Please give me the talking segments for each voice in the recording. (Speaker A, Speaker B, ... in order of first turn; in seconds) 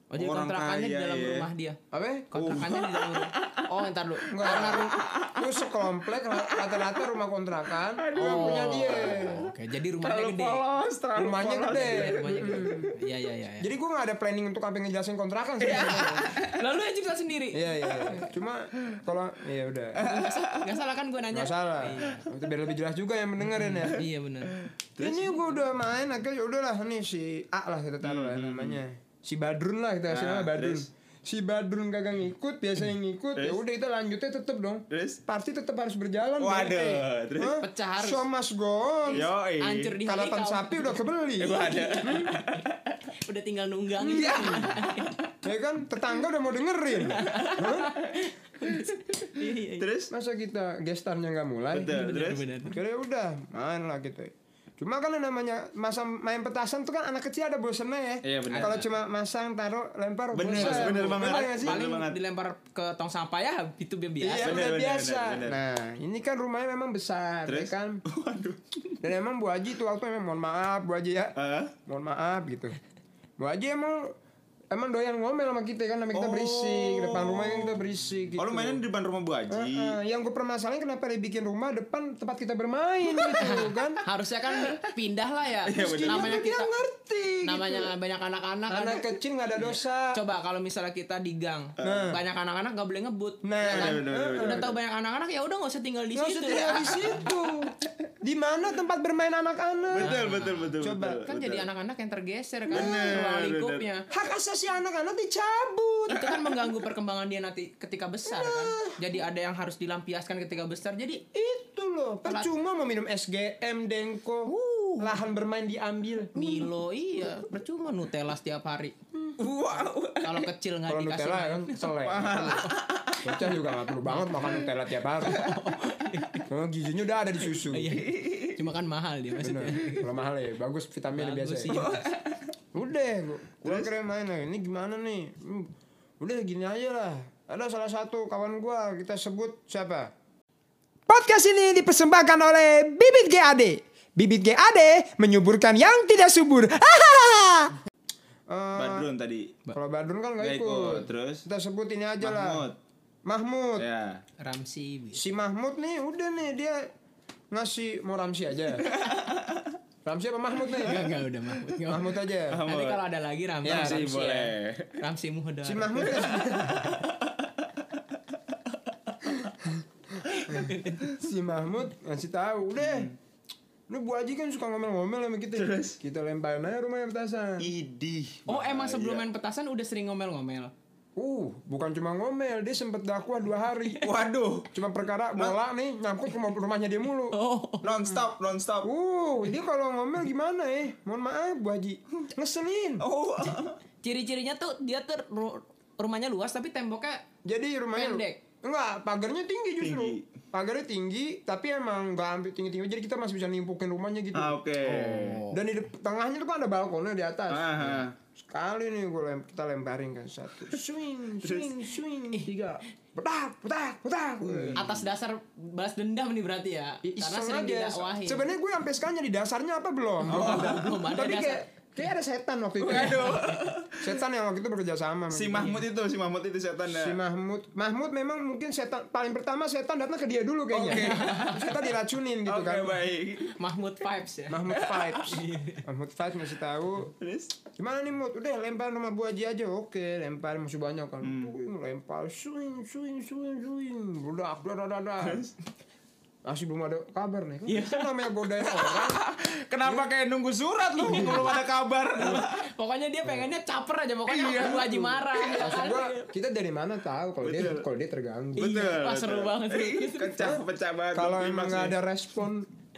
Speaker A: 0.1-1.8, 2.3-4.9, 8.1-10.6, 11.7-13.7, 15.7-18.2, 20.0-22.3, 23.4-24.6, 37.5-38.2, 39.1-42.7, 43.2-45.2, 47.0-49.9, 51.8-52.8, 58.5-58.9, 60.5-64.6, 83.2-86.7, 87.4-89.1, 90.1-97.2, 100.0-104.0, 106.1-111.2, 112.2-112.5, 114.5-115.2, 116.3-119.0, 120.2-122.7, 124.0-124.6, 125.2-126.5, 127.6-130.1, 131.1-132.1, 154.4-155.2, 160.7-166.6, 170.2-171.1, 178.5-180.7, 187.3-188.0, 194.0-197.2, 197.9-198.4, 205.1-205.5, 214.8-218.5, 220.2-221.7, 222.9-223.6, 230.9-231.6, 233.4-235.8, 247.7-248.1, 251.0-251.6, 252.1-256.3, 258.6-260.4
Speaker B: 0.1-1.5, 2.3-7.1, 7.9-12.9, 15.6-16.6, 19.9-20.8, 24.5-25.4, 28.0-28.8, 30.1-30.9, 33.4-33.6, 34.9-35.2, 36.4-37.6, 39.1-40.0, 41.4-43.0, 44.1-45.3, 48.7-49.0, 49.6-50.1, 51.7-52.5, 58.2-58.8, 60.3-62.2, 64.4-65.6, 67.5-68.7, 71.3-71.7, 76.1-77.8, 78.3-80.0, 85.6-86.4, 91.8-92.1, 93.6-94.8, 97.0-97.4, 99.9-101.7, 102.7-103.8, 119.4-120.5, 122.0-123.4, 127.9-128.6, 131.7-132.5, 133.6-133.9, 148.8-149.6, 150.4-151.4, 152.2-152.8, 153.8-154.2, 158.8-159.8, 162.5-163.0, 163.6-165.0, 166.1-168.0, 168.5-169.3, 172.8-173.1, 175.5-176.0, 177.6-179.2, 184.0-184.8, 187.8-188.9, 193.0-193.8, 199.8-200.3, 204.3-205.5, 207.5-208.1, 211.4-211.8, 214.4-215.0, 220.2-220.9, 222.8-224.2, 225.3-227.2, 230.7-231.9, 232.4-233.6, 234.7-235.1, 237.2-237.6, 241.2-241.5, 245.2-245.5, 248.7-252.6, 254.2-255.7, 257.4-257.9, 258.6-262.0
Speaker C: 1.9-2.6, 4.3-9.5, 11.2-12.9, 13.6-16.3, 17.5-20.0, 21.3-24.0, 25.0-39.3, 40.0-42.3, 44.0-44.7, 45.4-48.0, 50.1-52.0, 52.6-61.8, 64.2-68.0, 69.0-71.3, 71.8-72.8, 73.4-74.1, 74.7-78.8, 79.5-84.0, 85.7-87.9, 88.7-90.2, 91.8-92.2, 93.4-94.7, 96.1-100.2, 100.8-101.2, 102.7-103.2, 104.1-106.5, 108.3-109.0, 111.3-116.7, 120.9-122.7, 123.2-125.5, 126.5-128.0, 129.4-131.8, 132.7-140.1, 141.1-147.8, 148.5-149.1, 149.7-152.7, 153.2-153.8, 155.1-156.9, 157.5-158.9, 160.0-161.1, 161.8-162.6, 163.7-164.1, 165.6-167.0, 169.3-173.1, 173.9-177.7, 181.2-184.1, 184.7-187.4, 188.8-193.1, 197.4-214.9, 217.0-225.8, 226.9-233.0, 234.5-237.1, 237.8-245.5, 246.4-249.2, 251.0-251.5, 255.5-258.8, 260.4-260.6, 261.1-262.7